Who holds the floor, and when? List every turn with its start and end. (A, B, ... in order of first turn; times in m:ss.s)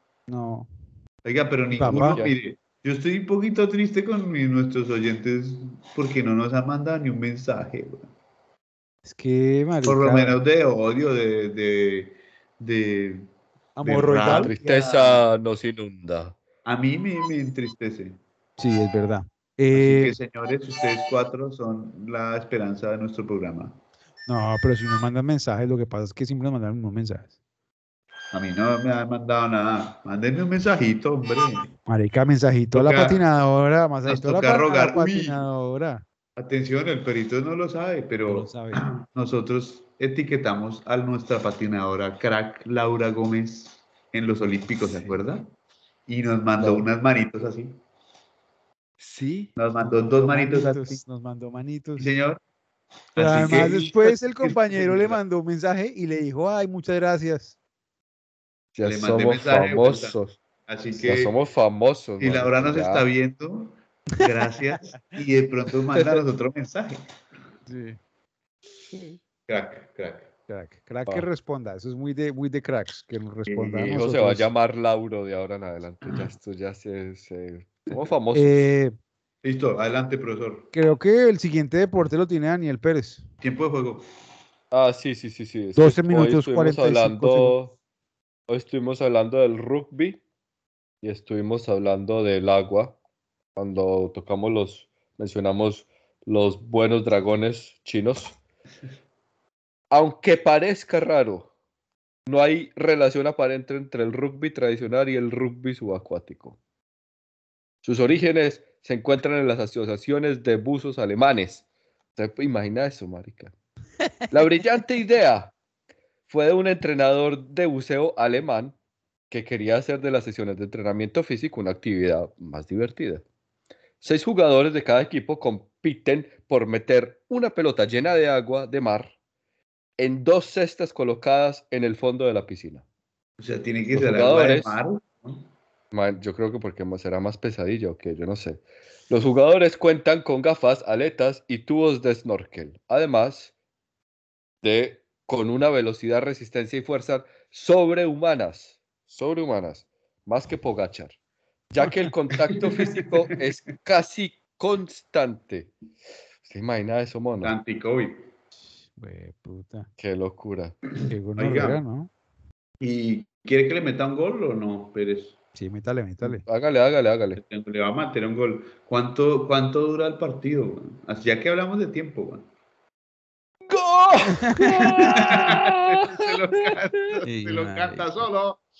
0:00.3-0:00.7 A
0:01.2-0:08.1 B
0:01.7-0:02.2 A
0:01.9-0:02.3 C
0:09.0-0:10.4 A
0:09.8-0:13.3 B
0:13.8-0:14.6 A
0:13.8-0:15.2 B
0:14.2-0:16.4 C
0:16.6-0:18.2 B
0:18.6-0:20.1 A
0:19.7-0:23.8 B
0:24.3-0:27.3 A
0:28.3-0:31.7 B
0:31.9-0:36.0 A
0:32.7-0:33.2 B
0:34.1-0:35.4 B
0:36.4-0:45.5 B
0:38.3-0:38.8 A
0:44.8-0:45.2 A
0:46.1-0:47.8 B
0:49.0-0:49.5 C
0:49.6-0:51.0 B
0:50.2-0:52.1 A
0:52.0-0:52.4 B
0:53.1-0:55.2 B
0:53.2-0:57.6 A
0:58.7-1:00.4 C
0:58.8-1:01.3 B
1:00.9-1:03.0 C
1:02.2-1:07.0 B
1:07.7-1:08.0 A
1:09.5-1:10.3 B
1:10.5-1:14.5 A
1:13.5-1:14.0 B
1:13.8-1:18.6 C
1:18.3-1:18.9 A
1:19.4-1:20.7 B
1:20.7-1:23.2 A
1:23.4-1:24.0 B
1:24.7-1:27.7 C
1:25.8-1:27.6 A
1:28.5-1:30.2 C
1:31.0-1:33.0 C
1:33.5-1:38.4 C
1:39.9-1:41.5 C
1:42.2-1:46.6 C
1:47.8-1:53.5 C
1:54.3-1:55.5 C
1:56.3-1:58.7 C
1:59.3-2:03.2 C
2:04.0-2:09.1 C
2:10.0-2:12.8 C
2:13.4-2:15.5 B
2:13.9-2:14.8 C
2:15.9-2:23.5 C
2:24.6-2:31.2 C
2:31.7-2:35.7 C
2:32.5-2:33.1 B
2:36.4-2:37.5 C
2:37.4-2:38.3 B
2:38.9-2:39.9 A
2:40.0-2:40.8 C
2:41.1-2:42.1 A
2:41.4-2:41.8 B
2:42.8-2:45.4 B
2:45.6-2:46.4 A
2:46.4-2:47.4 C
2:47.4-2:52.4 B
2:53.7-2:56.7 C
2:54.3-2:55.4 A
2:55.1-2:58.6 B
2:57.2-2:58.2 A